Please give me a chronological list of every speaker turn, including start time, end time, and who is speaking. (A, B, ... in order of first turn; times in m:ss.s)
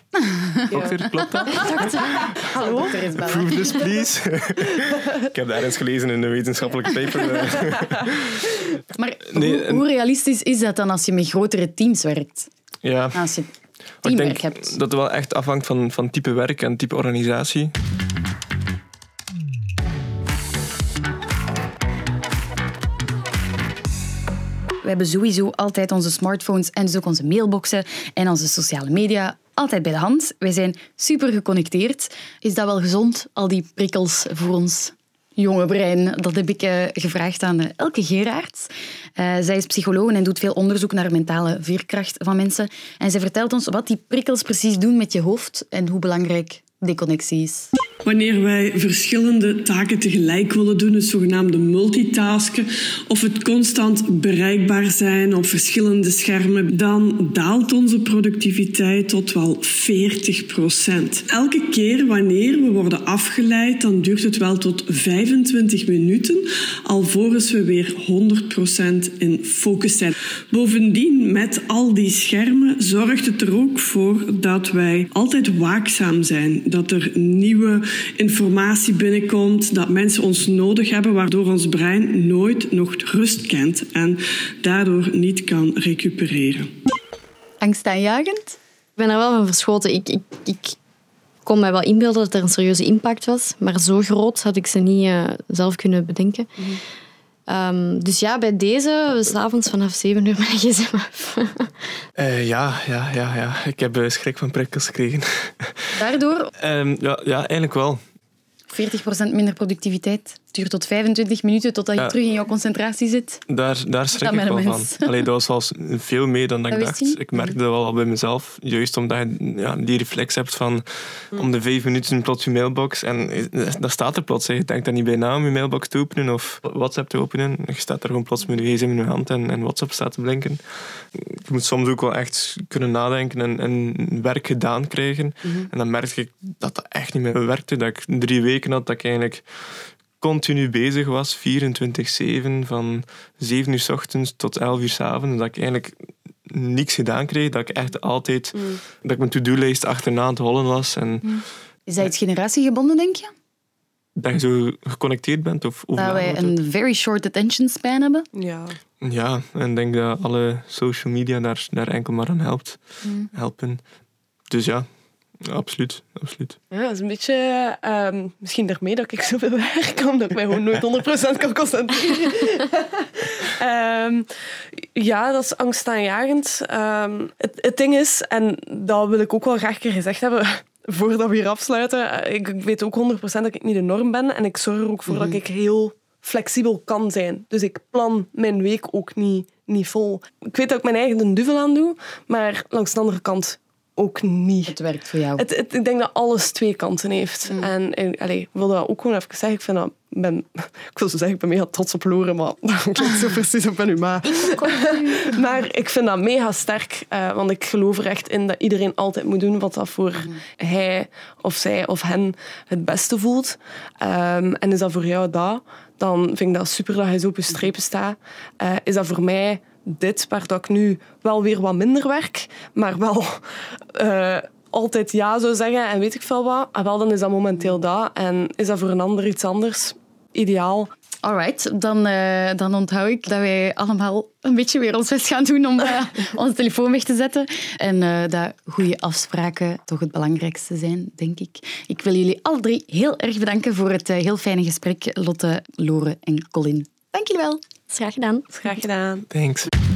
0:00.2-0:03.8 A
0:00.7-0:02.3 B
0:02.6-0:02.9 C
0:03.1-0:08.6 B
0:08.9-0:12.5 A
0:09.3-0:09.8 B
0:12.8-0:13.3 B
0:13.1-0:13.5 A
0:14.0-0:17.7 B
0:14.0-0:14.7 A
0:24.8-0:47.7 A
0:48.0-1:26.7 D
1:27.6-1:28.6 A
1:29.0-1:30.8 E
1:31.4-1:36.5 E
1:37.5-1:41.7 E
1:42.2-1:45.9 B
1:46.0-1:46.5 A
1:46.6-1:48.0 B
1:48.7-1:53.4 A
1:53.5-2:10.6 B
1:54.2-1:55.1 A
1:56.7-1:57.6 A
2:11.1-2:19.4 B
2:20.2-2:26.0 B
2:26.5-2:31.4 B
2:31.3-2:33.3 A
2:34.2-2:36.5 B
2:36.0-2:38.2 A
2:38.3-2:38.8 C
2:39.0-2:42.8 B
2:43.3-2:43.8 B
2:44.5-2:44.9 B
2:45.4-2:46.6 B
2:46.7-2:54.3 C
2:54.9-3:14.8 C
3:05.1-3:05.4 A
3:14.6-3:15.4 A
3:15.4-3:50.9 C
3:24.2-3:25.3 E
3:51.2-4:06.9 A
4:07.1-4:08.5 E
4:08.5-4:09.3 C
4:09.3-4:09.7 B